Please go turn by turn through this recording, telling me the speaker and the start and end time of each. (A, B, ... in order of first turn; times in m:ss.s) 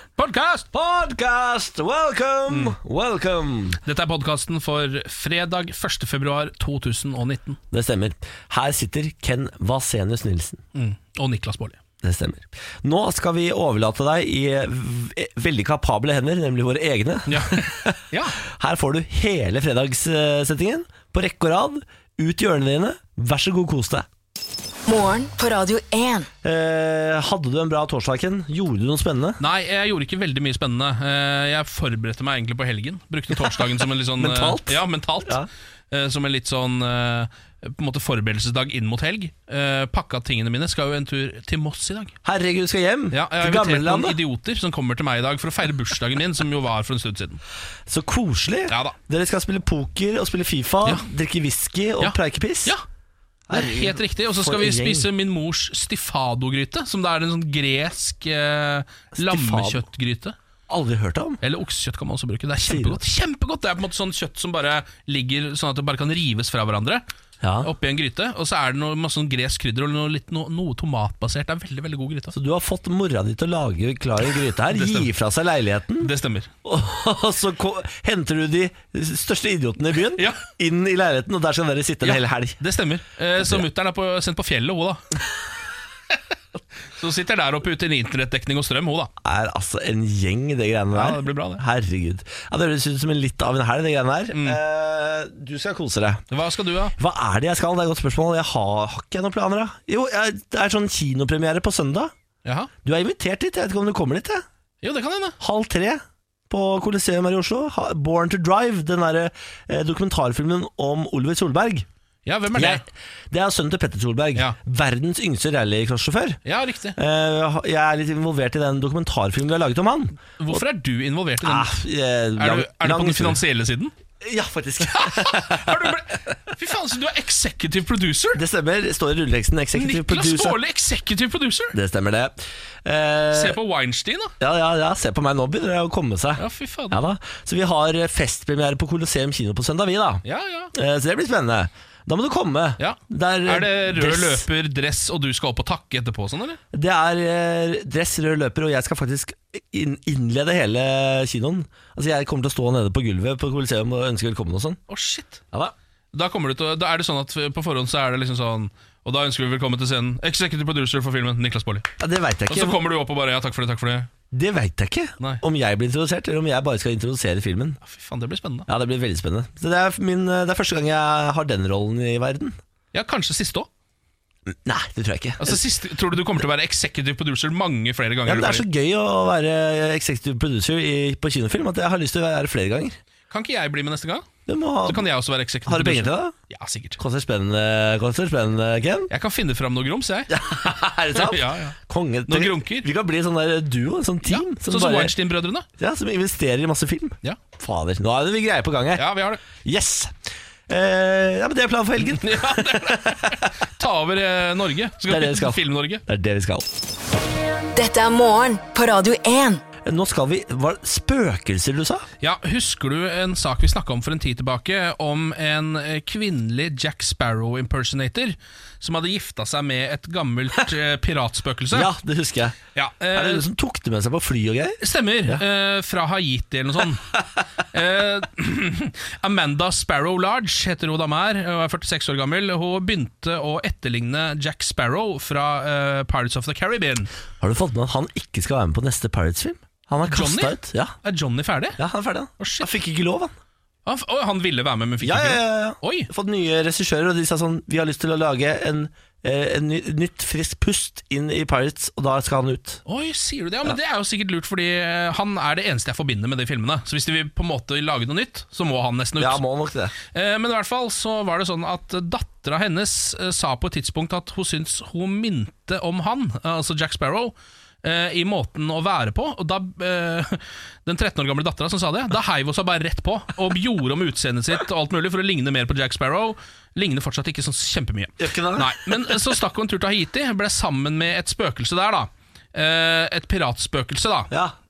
0:00.2-0:00.6 A
0:00.7-0:03.8 B
0:02.5-0:02.8 A
0:03.8-0:07.6 A
0:07.7-0:10.6 B
0:10.7-0:11.8 A
0:12.0-0:24.0 B
0:17.3-0:18.4 A
0:24.8-0:26.3 C
0:26.4-0:29.4 B
0:29.4-0:35.4 A
0:34.2-0:35.5 B
0:35.9-0:42.1 A
0:42.2-0:44.2 B
0:43.1-0:47.4 A
0:47.9-0:52.7 B
0:48.7-0:49.0 A
0:52.0-0:52.8 A
0:53.5-0:55.1 B
0:53.5-1:00.4 A
0:59.1-0:59.8 B
1:00.7-1:01.4 B
1:01.4-1:07.0 A
1:02.6-1:03.0 B
1:07.4-1:07.7 B
1:07.6-1:12.3 A
1:12.3-1:16.1 B
1:14.7-1:15.1 A
1:16.0-1:16.5 A
1:16.6-1:22.6 B
1:20.2-1:20.4 A
1:22.0-1:25.0 A
1:27.0-1:29.1 A
1:29.2-1:36.2 B
1:30.9-1:31.6 A
1:34.3-1:34.6 A
1:36.3-1:37.0 A
1:37.0-1:42.1 B
1:42.4-1:42.7 A
1:42.8-1:44.4 B
1:44.8-1:45.4 A
1:45.4-1:51.9 B
1:52.2-1:52.8 A
1:52.6-1:56.4 B
1:56.4-1:57.0 A
1:57.0-2:00.6 B
2:00.4-2:01.7 A
2:01.4-2:03.4 B
2:02.4-2:03.9 A
2:04.2-2:06.0 B
2:04.8-2:08.4 A
2:08.3-2:10.6 B
2:09.8-2:11.8 A
2:11.7-2:13.6 B
2:13.3-2:14.3 A
2:14.4-2:20.2 B
2:16.4-2:17.0 A
2:20.2-2:20.7 A
2:20.7-2:24.4 B
2:22.8-2:26.6 A
2:26.7-2:34.8 B
2:34.9-2:35.4 A
2:36.1-2:41.9 A
2:42.0-2:42.8 B
2:42.5-2:44.1 A
2:44.3-2:47.8 B
2:47.8-2:48.7 A
2:48.7-2:52.6 B
2:52.9-2:53.7 A
2:54.5-2:55.6 B
2:55.4-2:58.6 A
2:58.2-3:03.0 B
3:03.3-3:04.3 A
3:04.5-3:05.0 B
3:04.8-3:07.0 A
3:05.7-3:06.3 B
3:07.0-3:09.1 B
3:09.1-3:10.3 A
3:10.3-3:15.1 B
3:11.1-3:12.9 A
3:14.2-3:15.7 A
3:15.8-3:20.1 B
3:19.0-3:19.4 A
3:20.7-3:23.5 B
3:22.2-3:26.0 A
3:25.1-3:26.7 B
3:27.7-3:29.6 C
3:29.8-3:32.0 B
3:32.2-3:41.9 A
3:41.7-3:42.6 B
3:42.8-3:43.4 A
3:43.1-3:45.4 B
3:44.8-3:47.2 A
3:47.7-3:57.1 A
3:57.4-4:00.9 B
4:00.0-4:01.8 A
4:01.8-4:03.3 B
4:02.4-4:02.7 A
4:03.8-4:06.1 A
4:05.0-4:12.8 B
4:12.9-4:19.4 A
4:19.2-4:19.9 B
4:20.1-4:44.3 A
4:38.2-4:39.2 B